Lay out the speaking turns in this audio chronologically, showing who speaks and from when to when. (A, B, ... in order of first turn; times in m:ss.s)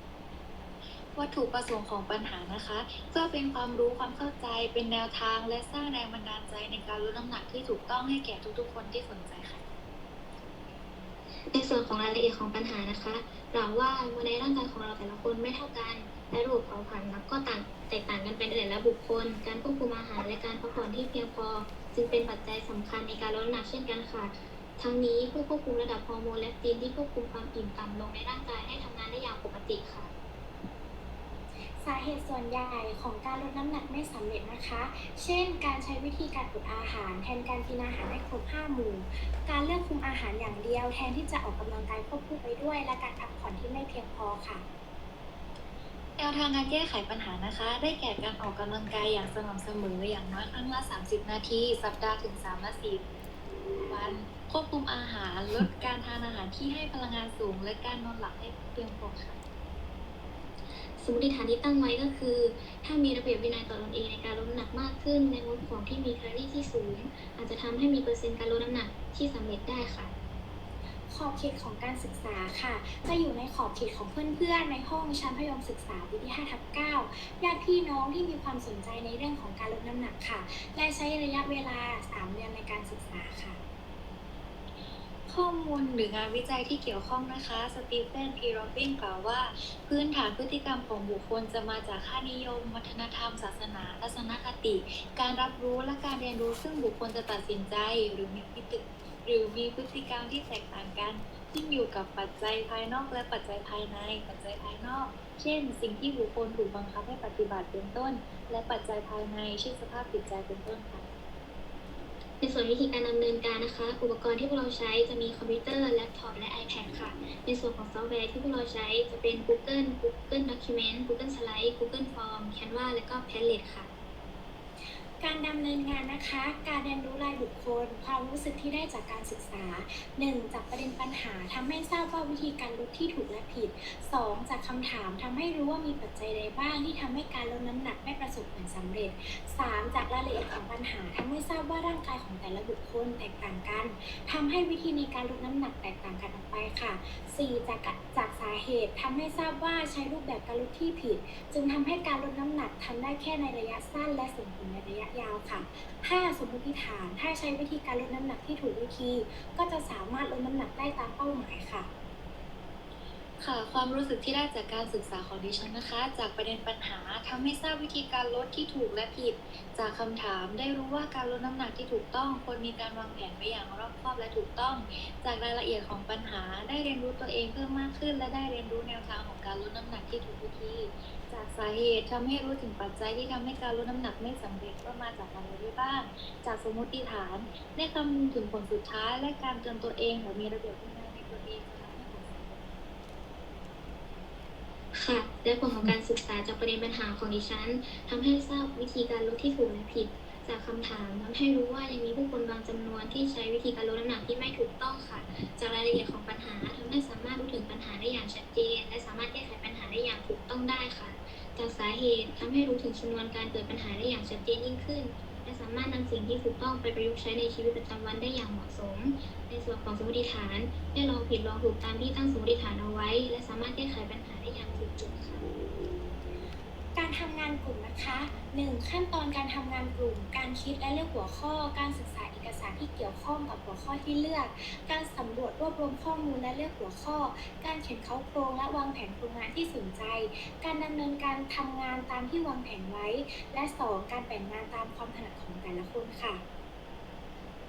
0:01.2-0:09.6 A
0:11.5-0:30.1 B
0:31.8-0:44.6 C
0:46.2-0:53.0 A
0:53.8-0:59.4 A
1:01.0-1:10.1 B
1:11.1-1:23.6 C
1:25.3-1:51.1 A
1:52.4-2:03.9 B
2:05.2-2:41.9 C
2:43.4-3:12.7 A
3:14.9-3:45.5 B
3:47.0-4:06.4 C